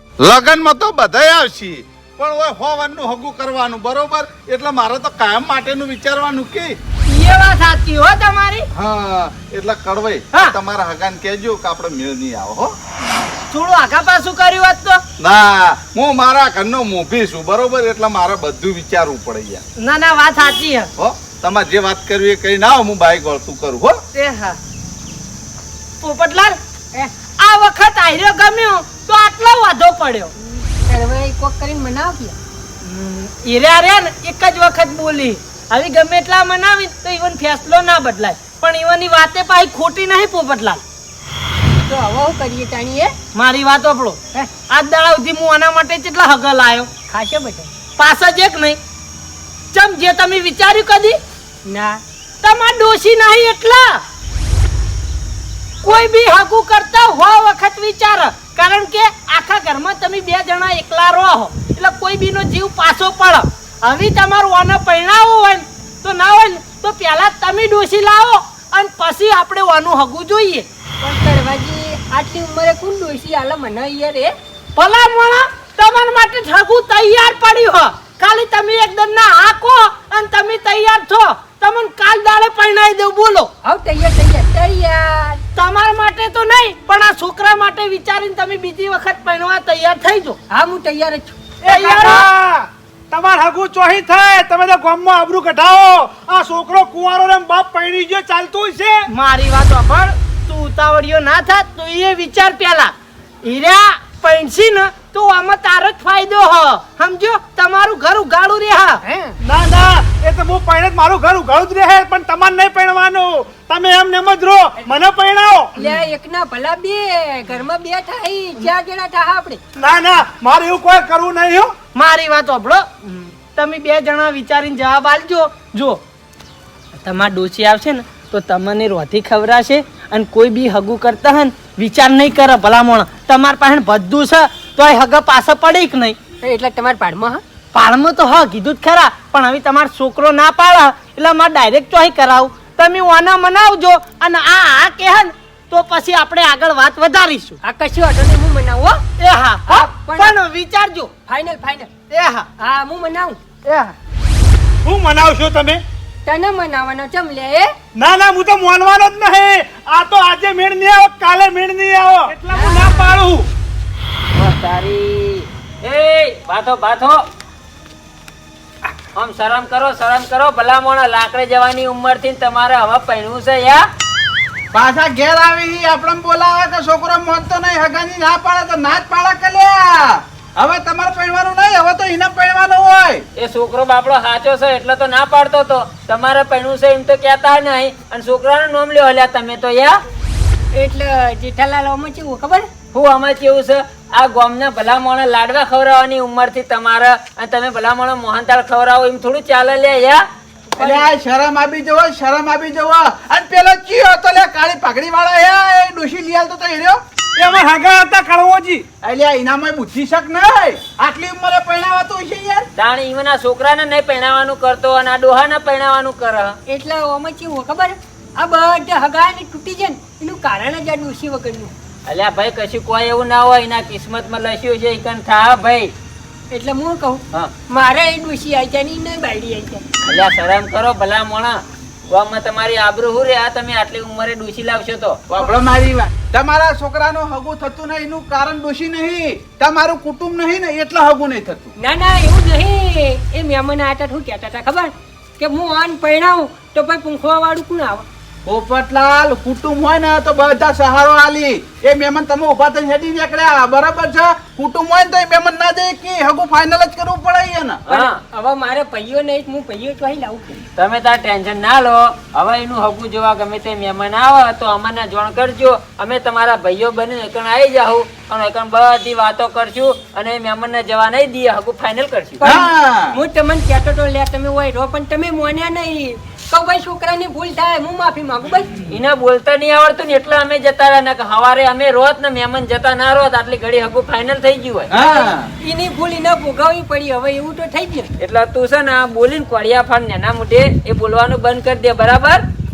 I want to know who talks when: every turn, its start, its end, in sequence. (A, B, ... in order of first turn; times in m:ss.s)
0:00.2-0:06.8 A
0:07.1-0:08.7 B
0:08.7-0:12.7 A
0:13.5-0:15.0 B
0:15.2-0:19.6 A
0:19.8-0:20.9 B
0:21.0-0:24.0 A
0:24.1-0:24.6 B
0:26.0-0:26.6 B
0:27.2-0:30.3 B
0:30.7-0:32.4 C
0:32.8-0:40.8 B
0:41.8-0:43.1 C
0:43.3-0:46.9 B
0:47.1-0:47.7 C
0:48.0-0:48.8 B
0:49.7-0:51.2 B
0:51.7-0:52.0 C
0:52.4-0:54.0 B
0:55.8-1:10.6 B
1:11.0-1:14.3 C
1:14.8-1:23.5 B
1:23.6-1:25.4 C
1:25.6-1:30.4 B
1:30.5-1:31.4 C
1:31.6-1:39.1 D
1:31.7-1:32.3 B
1:39.1-1:49.0 B
1:49.0-1:49.3 C
1:49.4-1:55.7 D
1:55.8-1:59.6 C
1:59.8-2:01.7 D
2:01.9-2:06.0 B
2:07.0-2:16.2 B
2:16.4-2:17.4 C
2:17.7-2:27.6 B
2:27.6-2:29.0 C
2:29.2-2:31.1 B
2:29.7-2:30.4 C
2:31.3-2:31.9 C
2:32.1-2:32.5 B
2:32.6-2:33.4 C
2:33.6-2:33.9 B
2:34.8-2:35.8 D
2:36.2-2:37.7 C
2:38.0-2:43.5 D
2:42.5-2:43.1 C
2:44.3-2:47.2 E
2:49.1-2:53.8 E
2:54.7-3:03.2 F
3:03.4-3:10.0 E
3:10.7-3:12.7 C
3:12.9-3:20.2 E
3:20.7-3:21.1 C
3:20.8-3:27.0 F
3:27.4-3:28.8 D
3:29.0-3:32.7 F
3:32.8-3:36.6 E
3:36.7-3:41.7 C
3:42.1-3:45.9 E
3:46.5-3:49.9 C
3:50.0-3:55.2 E
3:55.3-4:01.7 F
4:01.8-4:08.0 C
4:08.4-4:17.8 F
4:17.9-4:18.2 E
4:17.9-4:20.6 C
4:20.8-4:32.4 E
4:32.4-4:38.7 C
4:32.4-4:33.2 F
4:38.9-4:44.9 E
4:44.9-4:45.5 F
4:45.0-4:48.1 C
4:48.2-4:52.4 E